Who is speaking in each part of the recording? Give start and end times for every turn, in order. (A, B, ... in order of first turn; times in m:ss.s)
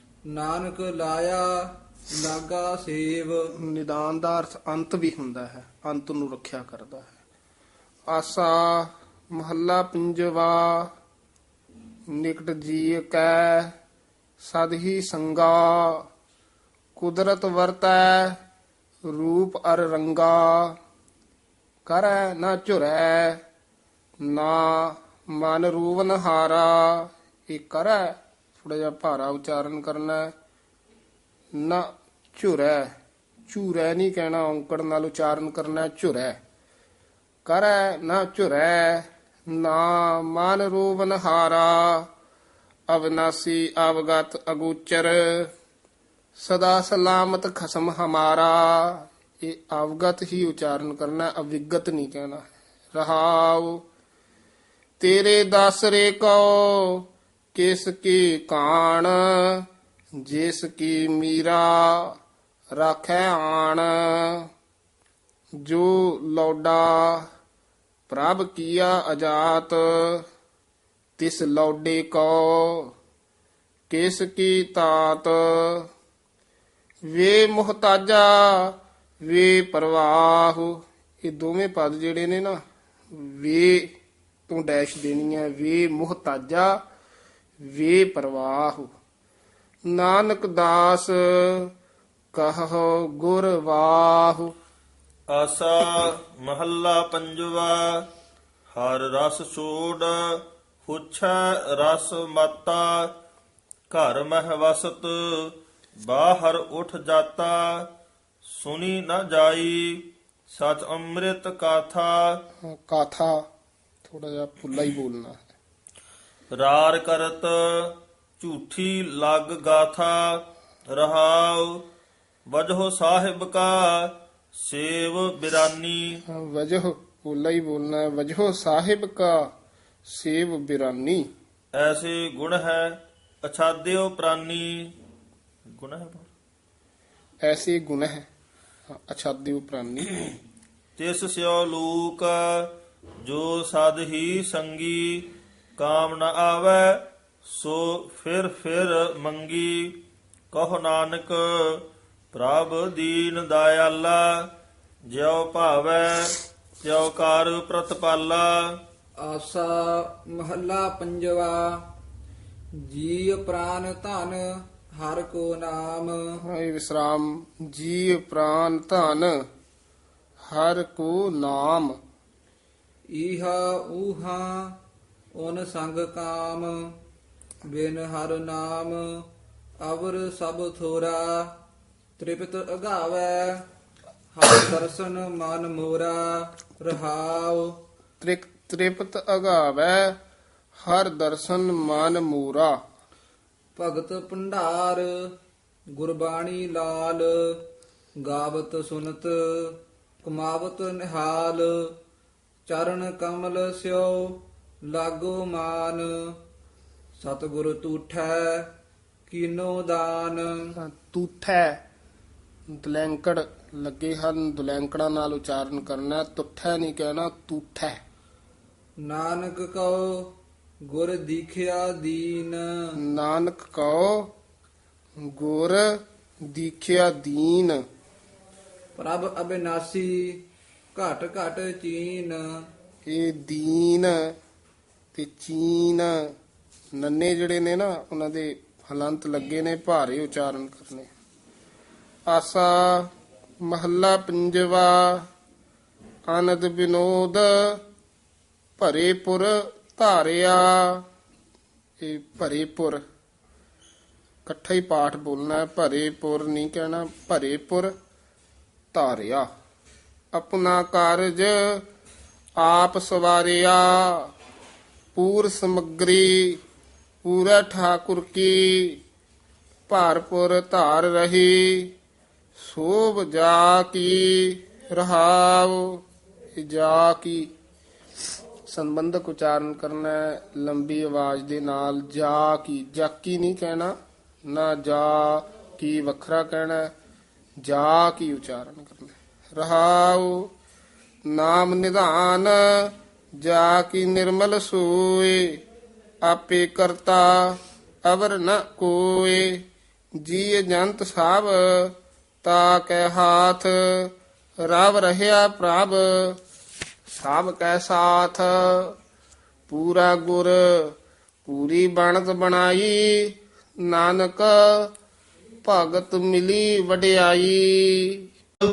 0:00.3-0:03.5 A
0:03.6-0:07.2 B
0:08.1-0:10.9 B
0:12.1-0:13.7 B
0:14.4-0:16.0 B
0:17.0-0:18.4 B
0:19.1-0:20.8 B
0:21.8-0:23.4 B
0:24.2-0:30.3 B
0:31.5-0:32.9 B
0:33.5-0:36.4 B
0:37.4-0:42.1 B
0:42.9-0:45.5 B
0:46.4-0:53.8 B
0:55.0-0:59.6 B
1:00.2-1:02.1 B
1:02.7-1:04.5 B
1:05.6-1:07.2 B
1:08.1-1:10.2 B
1:11.2-1:12.9 B
1:13.9-1:15.9 B
1:17.1-1:22.6 B
1:23.1-1:23.9 B
1:24.5-1:26.8 B
1:27.6-1:28.9 B
1:29.9-1:31.7 B
1:32.3-1:34.5 B
1:35.3-1:38.0 C
1:38.7-1:43.1 C
1:43.9-1:47.9 C
1:48.5-1:52.4 C
1:52.6-1:53.4 B
1:54.0-1:55.5 B
1:56.5-2:01.8 C
2:02.5-2:06.2 C
2:06.3-2:09.5 B
2:10.1-2:11.3 B
2:11.7-2:14.9 C
2:15.7-2:16.3 C
2:17.4-2:18.2 B
2:18.9-2:20.3 B
2:21.0-2:22.7 C
2:23.2-2:30.0 C
2:30.5-2:34.5 C
2:35.1-2:38.8 C
2:39.2-2:41.9 A
2:42.8-2:46.4 A
2:46.4-2:49.3 B
2:50.4-2:52.0 B
2:53.1-2:54.8 A
2:55.4-2:56.9 A
2:57.7-2:59.2 A
2:59.8-3:01.6 A
3:02.2-3:03.6 A
3:04.3-3:07.8 A
3:08.2-3:10.2 B
3:10.8-3:12.8 B
3:13.8-3:15.3 A
3:15.9-3:17.6 A
3:18.2-3:21.9 A
3:22.6-3:26.4 A
3:27.2-3:28.7 A
3:29.3-3:30.7 A
3:30.8-3:31.8 B
3:32.7-3:38.0 B
3:39.0-3:40.3 A
3:40.9-3:42.9 A
3:43.0-3:44.3 B
3:45.2-3:47.8 B
3:49.0-3:52.4 A
3:53.0-3:54.2 B
3:55.1-3:56.1 B
3:57.0-4:01.1 B
4:02.3-4:03.1 B
4:03.6-4:05.2 B
4:06.3-4:07.8 B
4:08.8-4:11.0 B
4:12.0-4:13.0 B
4:14.4-4:17.9 B
4:18.9-4:19.5 B
4:20.3-4:21.8 B
4:22.6-4:24.3 B
4:25.1-4:26.6 B
4:27.2-4:29.0 B
4:29.9-4:31.9 B
4:32.6-4:36.0 B
4:36.5-4:37.5 B
4:38.7-4:43.9 B
4:44.5-4:46.9 B
4:47.6-4:50.5 B
4:51.3-4:55.6 B
4:56.2-4:59.6 B
5:00.2-5:04.1 B
5:04.6-5:06.4 B
5:07.1-5:09.0 B
5:09.7-5:10.9 B
5:11.4-5:14.9 B
5:15.6-5:18.3 B